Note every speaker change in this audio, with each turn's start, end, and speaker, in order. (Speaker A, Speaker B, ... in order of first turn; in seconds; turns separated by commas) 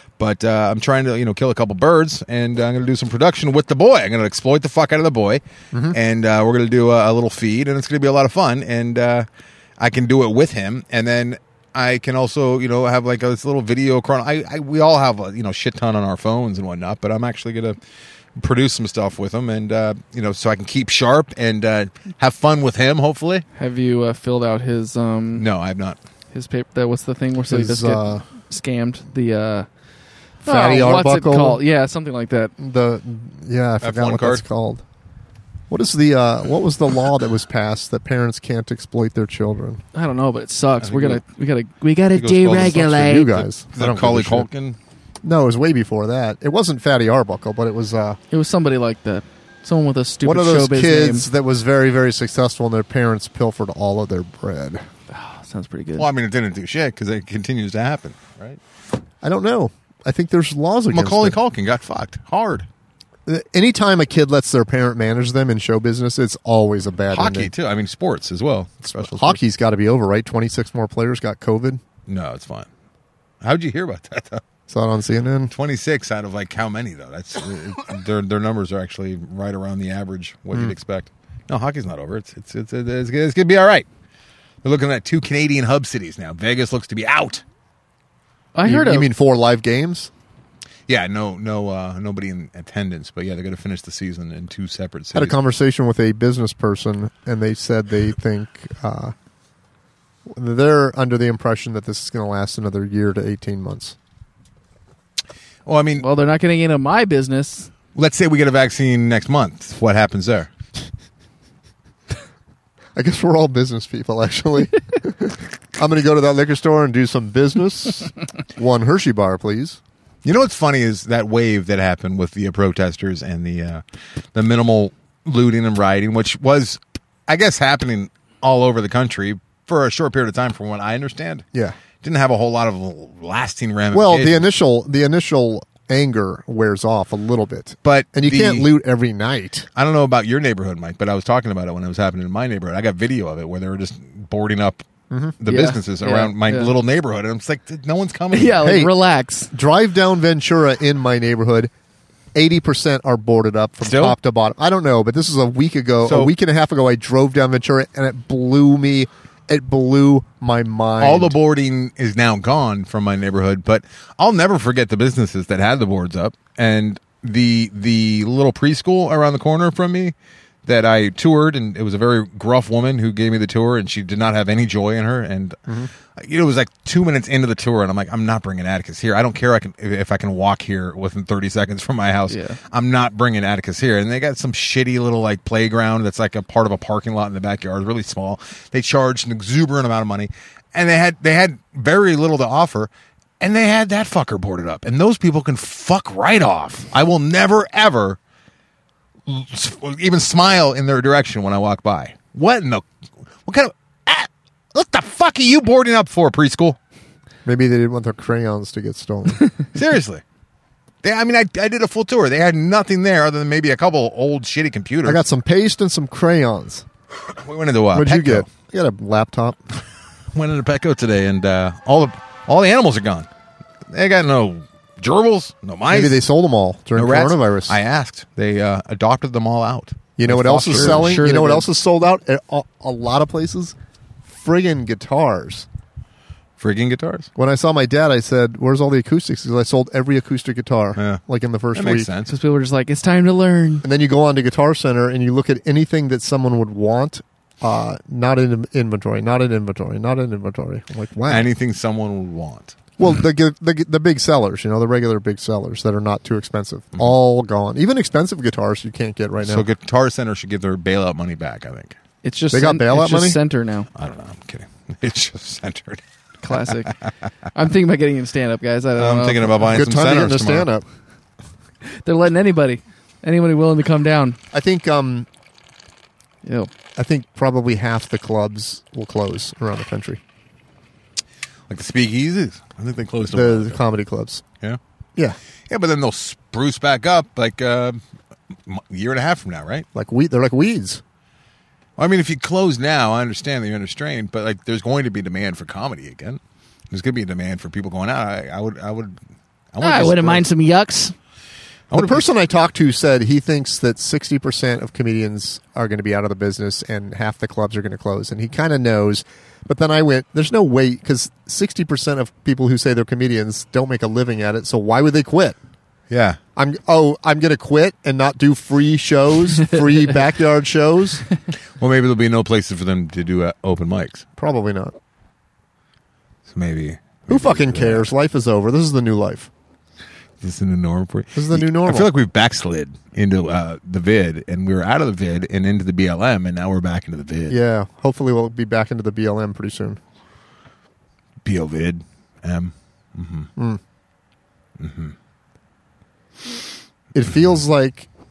Speaker A: 0.2-9.2, Speaker B: 5.7-6.0, Speaker A: 9.8-17.8, Speaker A: 18.4-23.4, Speaker C: 23.6-25.4, Speaker A: 25.4-26.0, Speaker C: 26.3-29.7, Speaker B: 27.5-28.2, Speaker B: 30.4-31.6, Speaker C: 30.4-32.5, Speaker B: 32.6-34.8, Speaker A: 33.8-34.4, Speaker B: 35.7-39.8, Speaker C: 39.9-43.4, Speaker A: 40.8-41.2, Speaker A: 42.1-44.8, Speaker B: 42.9-44.5, Speaker B: 45.2-48.2, Speaker C: 48.3-51.3, Speaker B: 50.2-54.8, Speaker C: 55.1-56.1, Speaker A: 56.0-58.6, Speaker B: 59.2-61.4, Speaker A: 60.9-62.7, Speaker B: 63.2-67.5, Speaker A: 67.1-69.4, Speaker B: 68.9-71.8, Speaker A: 72.1-72.7, Speaker A: 73.4-74.4, Speaker B: 74.7-75.5, Speaker A: 75.5-83.8, Speaker A: 84.6-87.4, Speaker C: 88.5-89.1, Speaker B: 88.6-90.1, Speaker A: 90.9-95.4, Speaker B: 95.1-99.1, Speaker B: 100.3-104.0, Speaker A: 105.7-106.0, Speaker C: 106.0-107.7, Speaker A: 107.9-110.5, Speaker B: 112.9-119.8, Speaker A: 120.2-123.8, Speaker A: 124.3-131.4, Speaker A: 132.0-134.4, Speaker B: 133.9-139.7, Speaker A: 137.8-138.7, Speaker A: 139.8-144.8, Speaker B: 145.1-145.3, Speaker A: 145.4-148.7, Speaker C: 145.4-146.7, Speaker C: 148.3-149.5, Speaker B: 148.6-148.9, Speaker B: 149.5-151.7, Speaker B: 152.3-161.3, Speaker A: 153.8-154.2, Speaker A: 156.1-156.3, Speaker A: 161.0-170.1, Speaker A: 170.7-175.6, Speaker A: 176.1-198.2, Speaker C: 182.3-182.6, Speaker A: 199.3-202.8, Speaker A: 203.4-206.8, Speaker B: 207.4-209.4, Speaker A: 209.7-210.2, Speaker A: 211.0-215.2, Speaker B: 215.0-216.8, Speaker A: 217.4-218.5, Speaker B: 217.9-219.6, Speaker A: 220.3-223.3, Speaker A: 223.9-226.2, Speaker B: 225.9-227.8, Speaker A: 226.9-231.2, Speaker B: 230.2-233.8, Speaker C: 230.7-231.7, Speaker B: 234.3-235.7, Speaker A: 236.6-237.3, Speaker B: 237.3-242.1, Speaker A: 240.9-241.2, Speaker A: 241.7-242.3, Speaker C: 242.3-243.8, Speaker B: 243.8-251.5, Speaker A: 251.3-252.8, Speaker B: 253.0-259.6, Speaker A: 259.4-261.9, Speaker C: 262.2-263.9, Speaker B: 262.5-263.4, Speaker A: 263.9-266.8, Speaker C: 266.4-267.0, Speaker C: 267.5-269.7, Speaker A: 269.0-270.7, Speaker B: 269.7-270.8, Speaker C: 271.9-274.4, Speaker B: 274.5-275.3, Speaker C: 276.4-276.7, Speaker B: 276.9-280.2, Speaker A: 281.7-283.8, Speaker B: 283.3-284.4, Speaker A: 285.7-288.0, Speaker A: 288.6-289.9, Speaker B: 289.9-291.0, Speaker A: 292.0-296.4, Speaker A: 296.9-299.2, Speaker A: 299.7-300.4, Speaker C: 299.8-301.1, Speaker A: 301.9-302.3, Speaker B: 301.9-315.6, Speaker A: 316.1-316.4, Speaker B: 316.6-321.2, Speaker A: 321.8-324.2, Speaker B: 324.4-324.9, Speaker A: 326.5-328.1, Speaker B: 327.3-329.5, Speaker A: 330.4-337.6, Speaker B: 331.3-332.1, Speaker B: 337.5-340.0, Speaker A: 341.4-343.5, Speaker B: 343.6-343.8, Speaker A: 344.8-345.1, Speaker B: 347.1-348.1